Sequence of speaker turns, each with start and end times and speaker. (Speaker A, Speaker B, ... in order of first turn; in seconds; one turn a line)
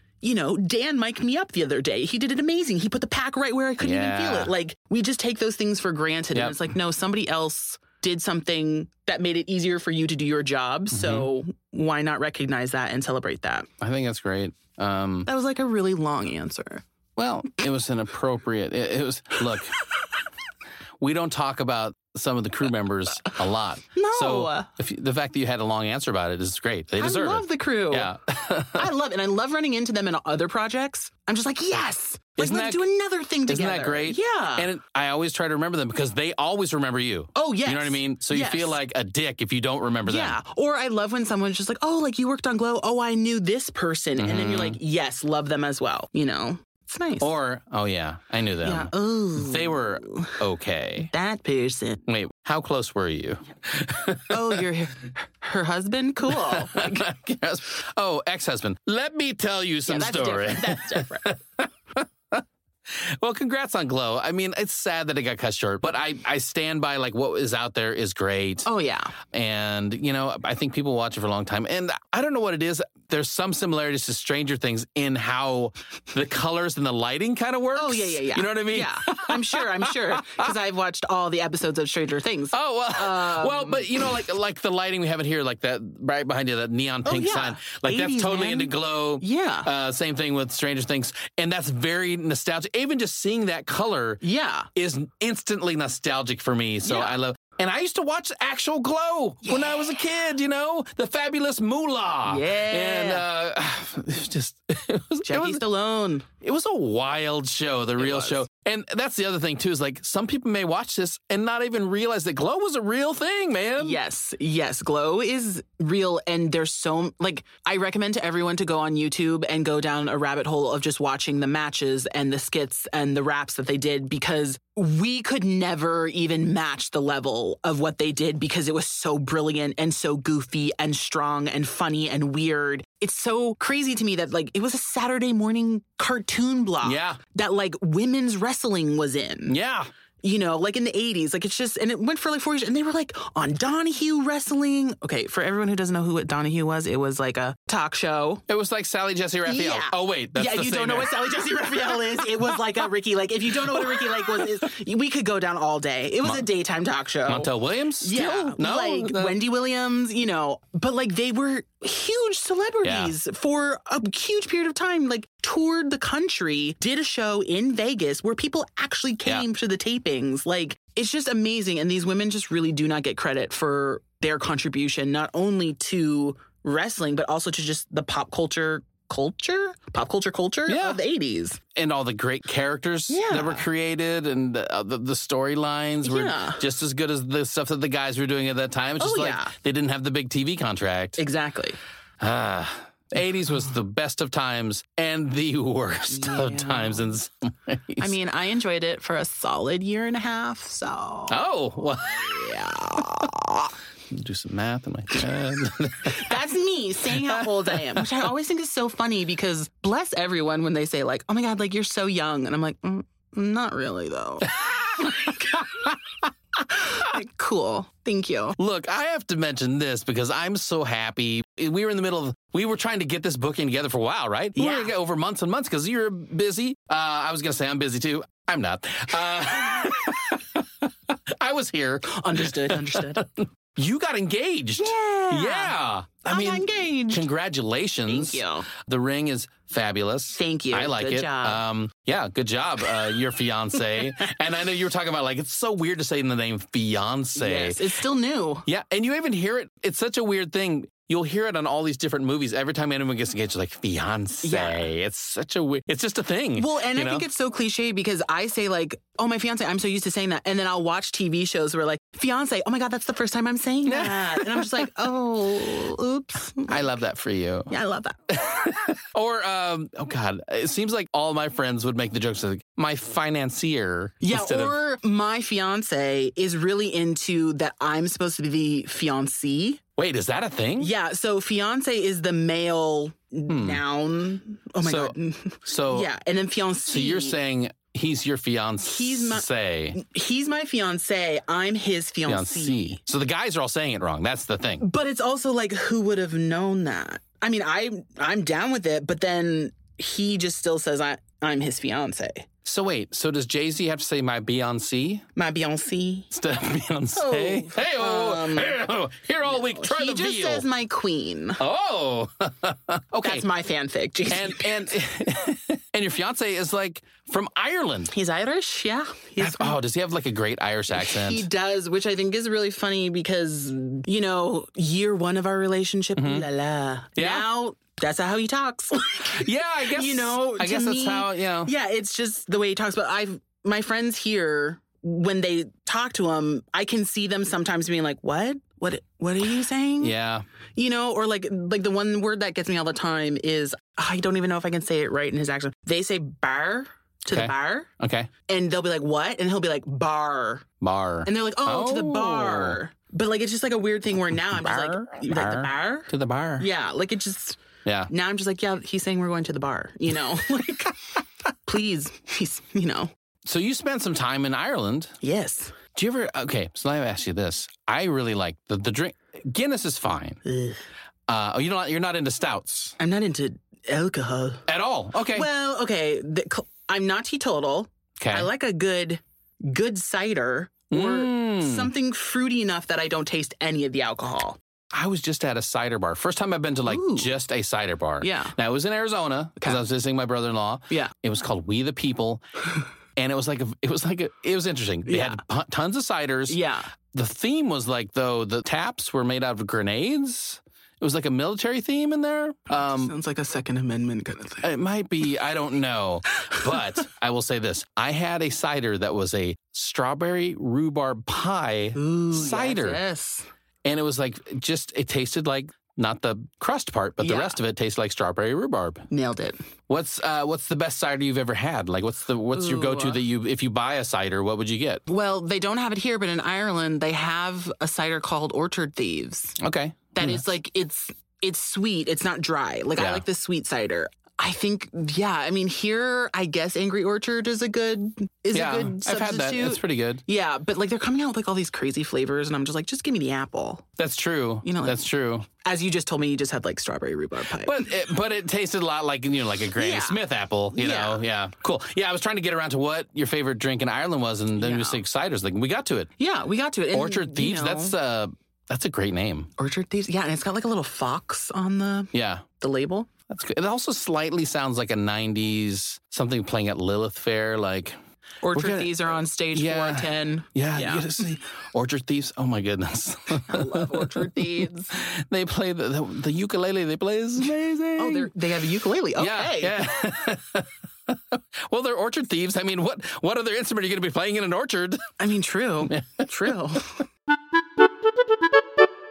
Speaker A: 0.2-13.7
Speaker B: 3.8-4.5
Speaker B: 10.9-11.3
Speaker B: 13.8-15.3
Speaker A: 15.3-16.8
Speaker B: 17.2-19.8
Speaker B: 21.0-28.9
Speaker A: 23.9-24.7
Speaker A: 27.0-28.1
Speaker A: 28.8-34.7
Speaker B: 32.4-32.8
Speaker B: 33.5-40.4
Speaker A: 37.4-38.8
Speaker A: 40.1-47.3
Speaker B: 44.2-44.8
Speaker B: 47.2-51.1
Speaker A: 48.6-50.4
Speaker A: 51.1-52.0
Speaker B: 52.1-54.6
Speaker A: 54.3-57.1
Speaker B: 56.3-68.7
Speaker A: 59.9-61.3
Speaker A: 68.7-69.1
Speaker B: 69.3-80.5
Speaker A: 77.8-84.2
Speaker B: 82.5-94.2
Speaker A: 87.0-89.7
Speaker A: 94.2-94.7
Speaker B: 94.8-105.6
Speaker A: 96.8-97.2
Speaker A: 99.5-99.8
Speaker A: 102.3-103.2
Speaker A: 105.2-106.3
Speaker B: 106.4-114.0
Speaker A: 108.0-108.4
Speaker A: 113.8-139.6
Speaker B: 136.8-137.2
Speaker B: 139.5-139.9
Speaker A: 140.2-148.4
Speaker B: 148.5-151.8
Speaker A: 149.4-157.5
Speaker B: 153.9-154.2
Speaker B: 157.3-159.3
Speaker A: 158.0-181.6
Speaker B: 162.8-163.1
Speaker B: 180.7-181.0
Speaker B: 181.8-191.2
Speaker A: 183.1-183.7
Speaker A: 186.0-186.6
Speaker A: 189.0-189.5
Speaker A: 191.2-191.8
Speaker B: 192.2-198.1
Speaker A: 196.1-197.1
Speaker A: 198.0-201.4
Speaker B: 201.3-202.5
Speaker A: 202.2-203.7
Speaker B: 204.1-206.3
Speaker A: 206.1-215.6
Speaker B: 207.2-208.1
Speaker B: 214.6-216.0
Speaker A: 216.7-218.6
Speaker B: 218.6-247.8
Speaker A: 224.6-224.9
Speaker A: 232.1-233.3
Speaker A: 234.8-237.3
Speaker A: 238.1-238.7
Speaker A: 240.3-241.6
Speaker A: 247.4-248.7
Speaker B: 248.7-257.2
Speaker A: 254.4-254.9
Speaker A: 256.6-266.9
Speaker B: 263.9-264.9
Speaker B: 266.7-267.7
Speaker A: 267.7-268.2
Speaker B: 268.3-274.8
Speaker A: 274.2-279.8
Speaker B: 280.0-280.9
Speaker A: 280.8-287.4
Speaker B: 283.5-283.8
Speaker B: 284.8-286.1
Speaker B: 286.9-290.0
Speaker A: 288.9-293.0
Speaker B: 292.3-294.8
Speaker A: 294.8-302.5
Speaker B: 302.6-305.3
Speaker A: 305.4-306.3
Speaker B: 306.3-310.6
Speaker A: 307.1-308.8
Speaker A: 309.5-311.6
Speaker B: 311.6-313.4
Speaker A: 313.2-314.8
Speaker B: 314.3-318.1
Speaker A: 318.1-319.8
Speaker B: 319.4-321.5
Speaker A: 320.9-340.1
Speaker B: 326.2-326.5
Speaker B: 327.2-327.5
Speaker B: 329.2-331.7
Speaker B: 340.0-340.5
Speaker A: 340.8-347.9
Speaker B: 347.3-348.3
Speaker A: 348.5-350.6
Speaker B: 350.8-352.8
Speaker A: 351.2-363.1
Speaker B: 354.4-356.7
Speaker B: 357.9-358.1
Speaker B: 363.5-365.1
Speaker A: 365.2-365.8
Speaker B: 365.9-370.4
Speaker A: 370.4-370.8
Speaker B: 371.3-373.0
Speaker A: 373.0-374.7
Speaker B: 374.7-375.5
Speaker A: 375.3-384.6
Speaker B: 378.2-378.5
Speaker B: 380.9-381.9
Speaker B: 384.9-392.5
Speaker A: 386.9-387.3
Speaker A: 388.2-388.6
Speaker B: 393.2-396.6
Speaker A: 395.1-395.4
Speaker A: 396.5-396.9
Speaker B: 397.1-403.1
Speaker A: 402.7-404.7
Speaker B: 404.6-413.0
Speaker A: 411.9-413.5
Speaker B: 413.9-419.1
Speaker A: 417.2-417.6
Speaker A: 419.1-419.6
Speaker B: 419.9-425.0
Speaker A: 422.5-423.2
Speaker A: 425.1-429.6
Speaker B: 429.6-430.4
Speaker A: 430.1-443.9
Speaker B: 433.0-433.2
Speaker B: 438.5-440.2
Speaker B: 444.0-445.5
Speaker A: 444.6-445.0
Speaker A: 445.5-447.9
Speaker B: 447.6-456.1
Speaker A: 449.8-450.2
Speaker A: 450.7-451.2
Speaker A: 454.6-455.0
Speaker A: 456.2-457.9
Speaker B: 456.9-459.5
Speaker A: 459.6-463.1
Speaker B: 462.1-462.5
Speaker B: 463.3-468.0
Speaker A: 468.4-471.2
Speaker B: 468.5-478.3
Speaker A: 473.5-474.9
Speaker A: 477.4-479.8
Speaker B: 479.2-485.1
Speaker A: 485.2-487.0
Speaker B: 485.9-486.3